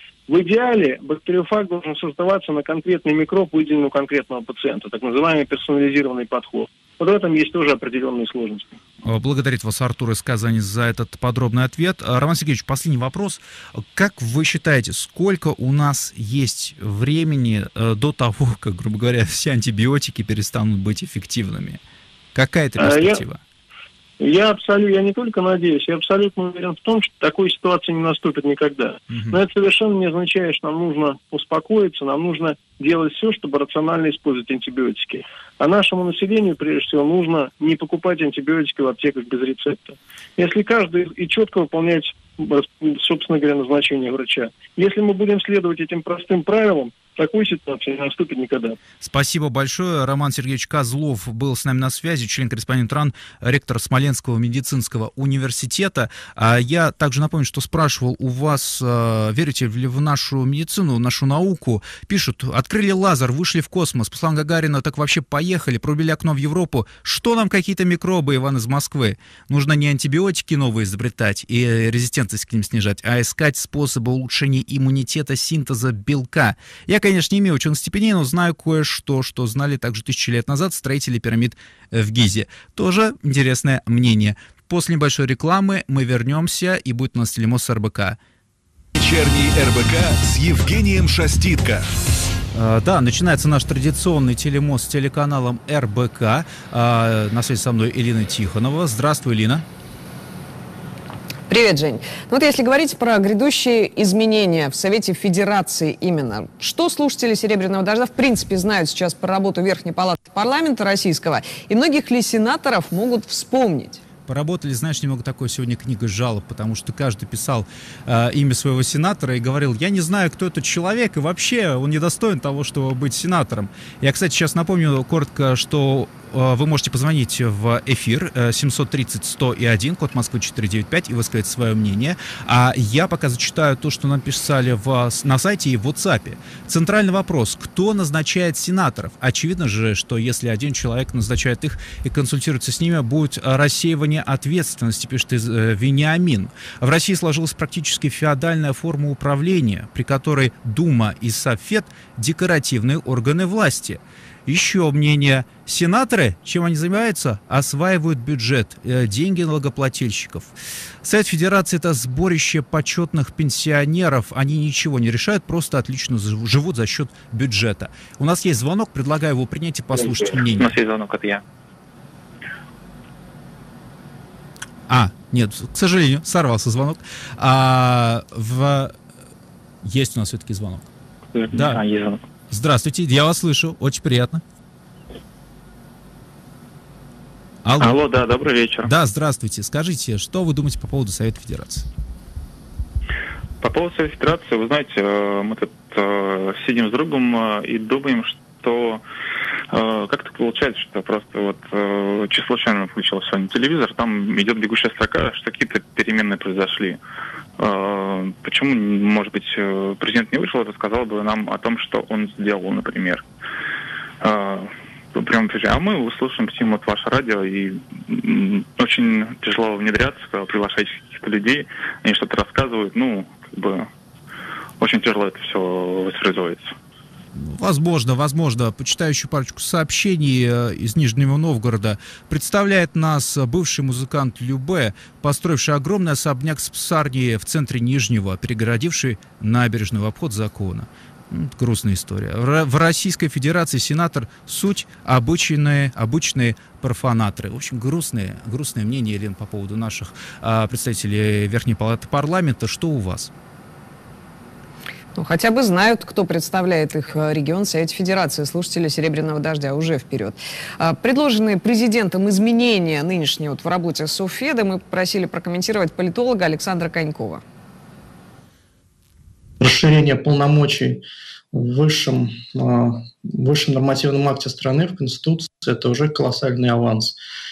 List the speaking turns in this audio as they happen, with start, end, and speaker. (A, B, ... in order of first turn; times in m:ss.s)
0:00.3-0:08.7 A
0:09.0-0:21.8 B
0:22.3-0:23.4 B
0:22.8-0:23.2 A
0:24.2-0:48.8 A
0:29.1-0:29.4 B
0:49.0-1:28.2 B
1:28.9-1:31.8 C
1:32.5-1:39.6 B
1:41.5-1:54.0 D
1:54.3-2:50.7 B
2:50.0-2:51.4 E
2:54.9-2:58.9 B
2:59.8-3:00.9 B
3:01.3-3:02.2 E
3:01.5-3:01.8 B
3:02.5-3:04.4 B
3:07.6-3:08.0 B
3:07.8-3:08.9 E
3:08.8-3:11.9 B
3:13.6-3:19.0 E
3:19.7-3:27.0 E
3:27.6-3:33.2 E
3:34.2-3:43.9 E
3:44.8-3:46.7 E
3:47.3-4:13.3 B
4:15.1-4:27.4 D
4:29.6-4:31.0 F
4:31.5-4:37.1 F